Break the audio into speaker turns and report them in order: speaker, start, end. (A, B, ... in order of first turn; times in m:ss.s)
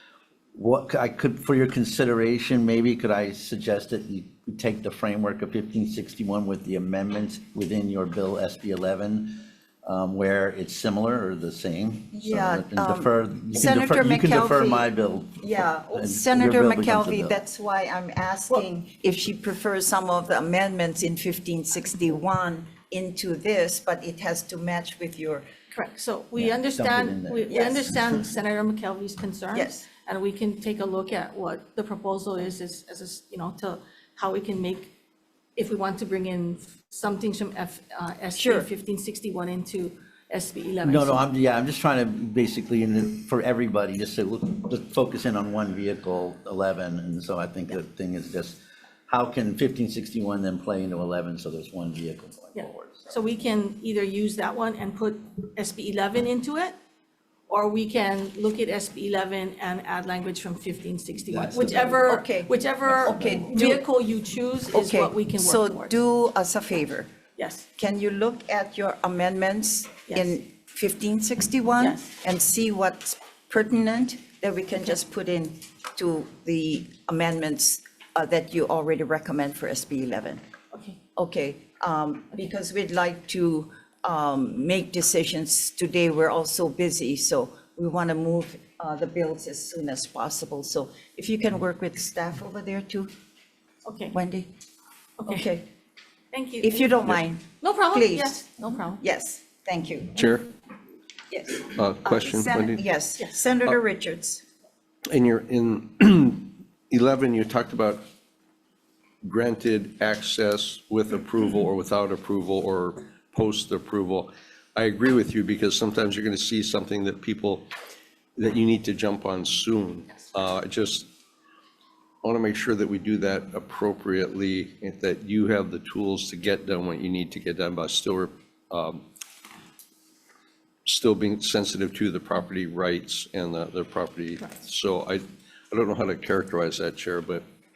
0:00.5-0:15.4 A
0:12.1-0:25.4 B
0:15.9-0:17.4 A
0:25.7-0:34.9 C
0:26.4-0:27.5 A
0:27.5-0:27.9 B
0:29.5-0:29.8 B
0:35.6-0:41.2 C
0:38.4-0:38.7 B
0:40.8-0:53.0 A
0:52.5-0:56.7 C
0:57.5-1:05.9 C
1:01.3-1:02.0 A
1:01.9-1:03.8 B
1:03.0-1:03.4 A
1:04.7-1:07.1 B
1:07.4-1:07.6 C
1:07.8-1:20.4 B
1:10.1-1:10.3 C
1:11.8-1:12.1 C
1:20.7-1:21.0 C
1:21.2-1:33.1 B
1:33.8-1:34.2 C
1:34.1-1:34.5 B
1:35.2-1:35.5 C
1:35.2-1:35.7 B
1:36.3-1:37.0 C
1:36.6-1:40.5 B
1:37.6-1:39.0 C
1:40.2-1:40.5 D
1:41.3-1:44.4 B
1:41.6-1:42.8 D
1:45.1-1:48.0 D
1:49.2-1:57.7 D
1:58.4-2:01.1 D
2:02.2-2:09.0 D
2:10.8-2:17.4 D